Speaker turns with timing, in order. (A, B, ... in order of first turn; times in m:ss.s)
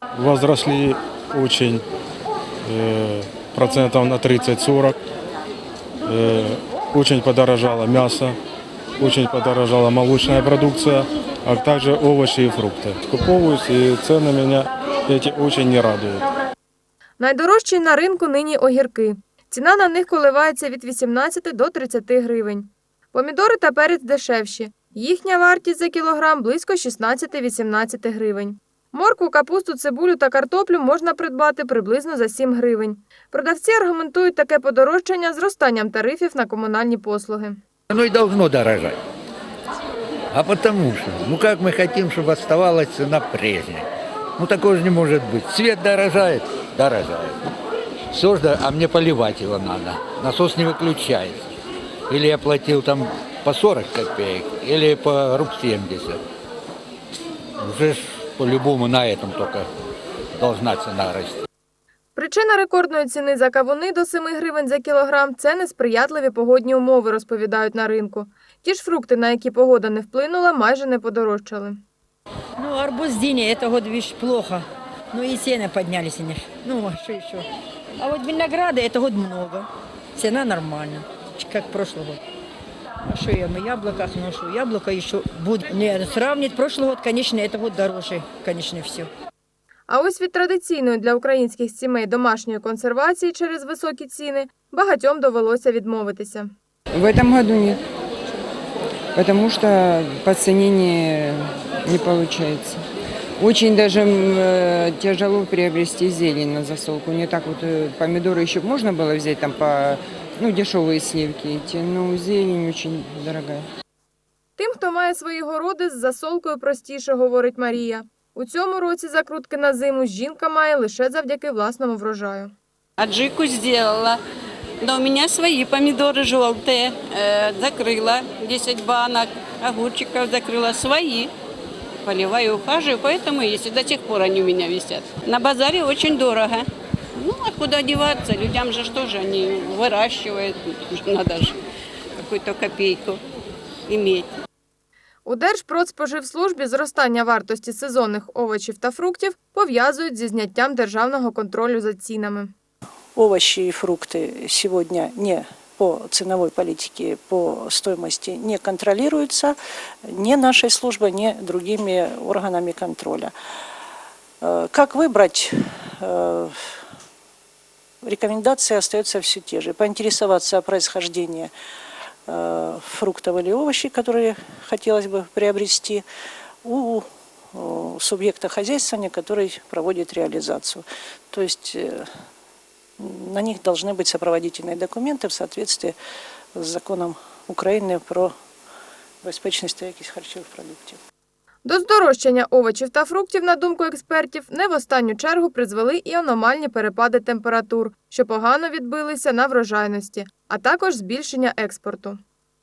0:00.2-0:01.8 A
0:02.7-0:05.0 A
0:06.1-0:08.4 A
0:09.0-0:16.2 A
0:17.2-0:37.6 B
0:37.9-0:39.0 C
0:40.3-0:43.9 C
0:44.4-0:47.4 C
0:48.1-0:51.4 C
0:52.1-0:56.2 C
0:57.6-0:59.7 C
1:00.4-1:01.4 C
1:02.2-1:11.8 B
1:12.6-1:17.4 D
1:18.0-1:22.2 D
1:23.1-1:29.1 D
1:29.9-1:36.5 B
1:36.9-1:37.8 E
1:39.2-1:42.8 E
1:43.4-1:53.7 E
1:54.6-2:02.5 B
2:03.0-2:04.2 F
2:04.8-2:11.3 F
2:12.0-2:21.6 F
2:22.2-2:23.2 F
2:23.9-2:24.3 F
2:25.2-2:32.5 B
2:33.2-2:43.3 G
2:44.4-2:46.7 G
2:48.0-2:51.5 G
2:52.3-2:56.0 G
2:56.6-3:02.1 G
3:03.0-3:06.0 G
3:06.6-3:08.3 G
3:09.2-3:11.0 G
3:11.6-3:22.2 B